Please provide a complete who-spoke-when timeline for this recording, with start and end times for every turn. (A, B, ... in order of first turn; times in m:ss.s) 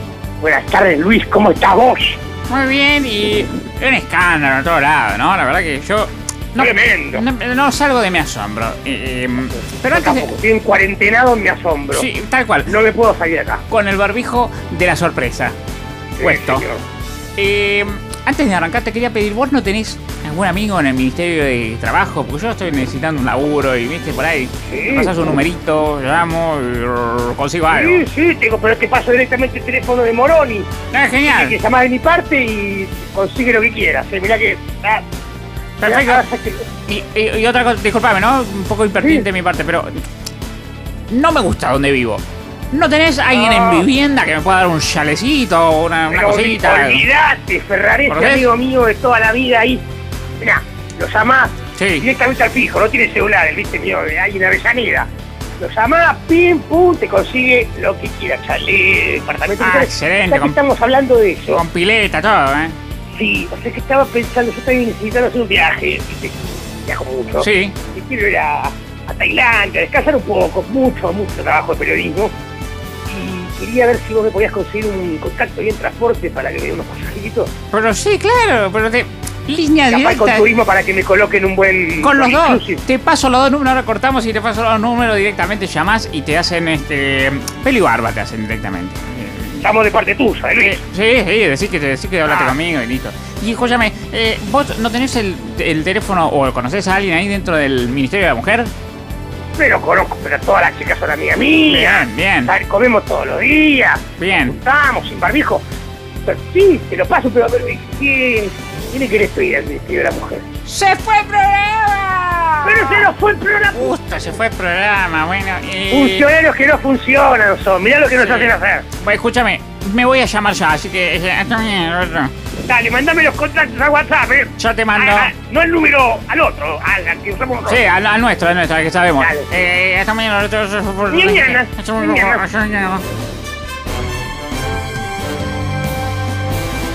0:00.4-0:02.2 A
0:02.5-0:10.3 B
0:06.6-0:07.2 A
0:09.9-0:12.1 A
0:11.9-0:12.8 B
0:12.7-0:13.6 A
0:13.7-0:15.6 B
0:16.2-0:16.8 A
0:16.2-0:16.7 B
0:17.4-0:28.0 B
0:24.7-0:25.1 A
0:27.7-0:30.7 A
0:30.9-0:31.6 B
0:31.2-0:35.0 A
0:35.8-0:36.2 B
0:35.8-0:36.7 A
0:36.9-0:39.9 B
0:39.0-0:39.2 A
0:41.1-0:47.0 B
0:43.3-0:43.9 A
0:46.1-0:49.8 A
0:48.1-0:48.5 B
0:50.4-0:55.1 A
0:51.8-0:52.0 B
0:55.6-1:01.6 A
0:59.6-1:00.6 B
1:01.5-1:02.8 B
1:03.1-1:12.3 A
1:07.4-1:07.8 B
1:13.1-1:17.5 A
1:17.7-1:20.5 B
1:19.9-1:22.8 A
1:22.0-1:29.7 B
1:29.6-1:30.8 A
1:30.6-1:38.7 B
1:32.3-1:32.6 A
1:39.6-1:45.6 A
1:41.7-1:42.5 B
1:44.2-1:44.6 B
1:46.2-1:50.4 A
1:50.6-1:53.1 B
1:52.6-1:53.8 A
1:53.7-1:56.3 B
1:55.9-1:58.9 A
1:58.2-2:02.3 B
2:02.6-2:07.8 A
2:04.6-2:05.3 B
2:07.6-2:13.0 B
2:09.2-2:09.7 A
2:11.1-2:12.4 A